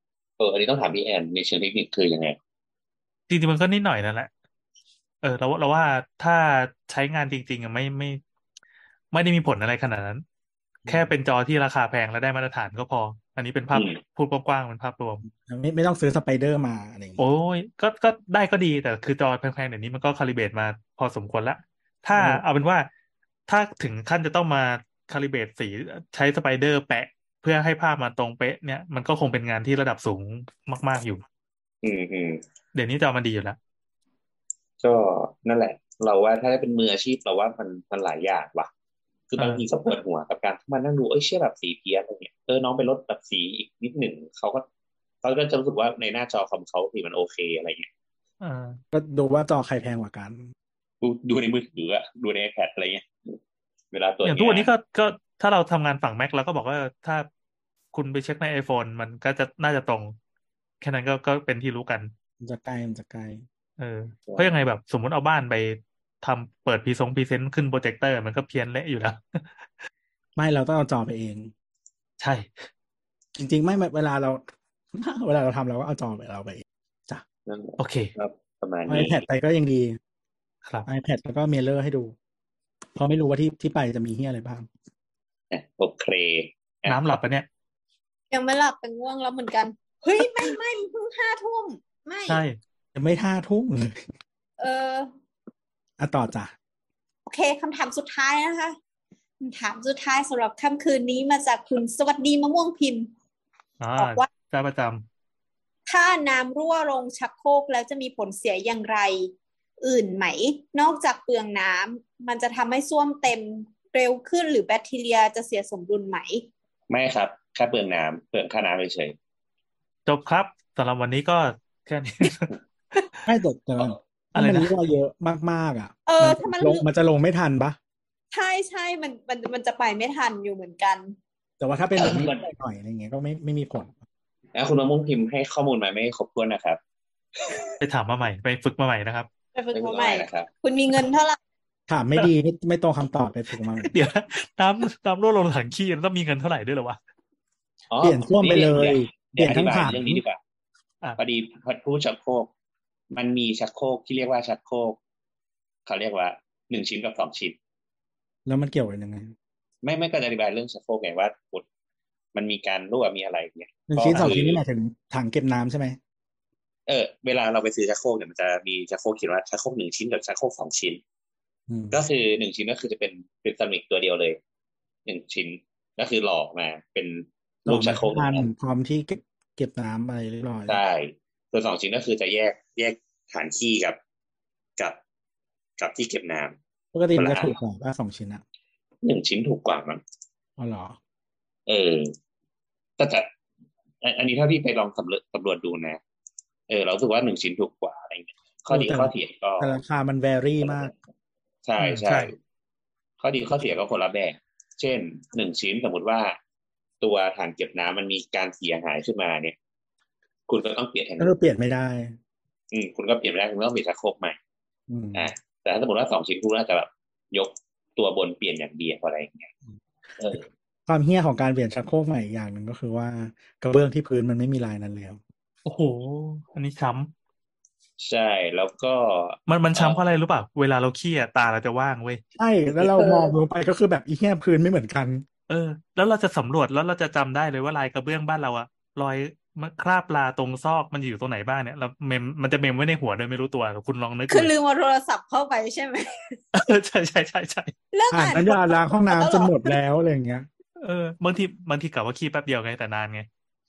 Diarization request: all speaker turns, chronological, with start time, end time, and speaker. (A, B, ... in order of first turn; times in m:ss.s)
0:00.4-0:02.4 A
0:03.3-0:04.3 B
0:05.2-0:08.2 B
0:09.1-0:10.2 B
0:10.8-0:11.1 C
0:10.9-0:15.2 B
0:13.7-0:14.0 A
0:15.2-0:17.2 C
0:17.2-0:22.9 B
0:22.1-0:22.4 C
0:23.5-0:31.2 B
0:31.8-0:32.4 A
0:32.7-0:33.6 B
0:34.8-0:38.7 A
0:39.3-0:44.6 A
0:39.4-0:39.6 B
0:45.2-0:47.9 A
0:48.4-0:48.8 B
0:48.9-0:50.5 C
0:51.0-0:53.3 A
0:53.9-0:54.7 A
0:54.2-0:57.3 B
0:57.9-1:00.2 B
1:00.8-1:02.1 B
1:02.4-1:03.4 C
1:03.8-1:09.5 B
1:04.3-1:04.6 A
1:10.4-1:11.5 C
1:12.2-1:12.6 B
1:13.4-1:17.2 C
1:17.4-1:19.2 A
1:17.8-1:18.1 B
1:18.9-1:20.0 C
1:20.8-1:22.1 C
1:23.0-1:24.7 C
1:25.5-1:27.1 A
1:26.8-1:27.4 B
1:28.3-1:32.4 D
1:32.2-1:32.6 B
1:32.9-1:34.0 C
1:34.6-1:35.1 D
1:36.0-1:36.5 C
1:37.3-1:38.8 D
1:39.4-1:43.1 D
1:43.8-1:45.0 B
1:44.0-1:44.3 D
1:45.9-1:56.4 D
1:56.9-1:59.2 A
2:00.0-2:02.5 B
2:03.2-2:07.8 C
2:04.4-2:04.7 B
2:06.1-2:06.8 D
2:08.3-2:11.2 D
2:11.6-2:13.9 C
2:12.0-2:12.4 A
2:14.5-2:16.8 A
2:17.8-2:19.3 B
2:19.5-2:21.4 D
2:19.7-2:20.5 A
2:21.9-2:23.9 C
2:23.8-2:27.0 B
2:27.9-2:30.4 A
2:28.0-2:30.2 C
2:31.2-2:32.5 A
2:33.1-2:35.0 A
2:35.8-2:37.6 A
2:38.4-2:39.3 C
2:39.8-2:41.6 A
2:42.3-2:44.6 A
2:43.9-2:46.0 C
2:46.9-2:51.0 A
2:51.7-2:52.0 C
2:51.9-2:54.4 A
2:55.0-2:58.4 A
2:57.6-3:00.8 C
3:00.7-3:04.0 A
3:05.8-3:06.6 A
3:06.9-3:08.4 C
3:07.2-3:07.5 A
3:09.0-3:10.0 A
3:10.6-3:11.0 C
3:11.7-3:12.1 A
3:13.0-3:13.3 A
3:14.0-3:16.0 A
3:16.7-3:19.8 A
3:18.7-3:20.9 C
3:20.6-3:20.9 A
3:21.6-3:22.3 A
3:21.8-3:22.3 B
3:23.2-3:26.4 A
3:27.0-3:29.6 A
3:30.5-3:31.3 A
3:31.2-3:32.2 C
3:32.7-3:34.4 A
3:34.9-3:35.3 C
3:35.1-3:39.5 A
3:40.2-3:40.5 A
3:40.4-3:45.2 C
3:45.6-3:47.1 B
3:48.0-3:50.0 A
3:49.5-3:52.2 B
3:52.4-3:55.2 C
3:55.5-4:04.5 B
4:04.3-4:06.4 D
4:06.5-4:07.7 B
4:07.9-4:09.8 D
4:08.1-4:10.5 C
4:10.8-4:13.3 B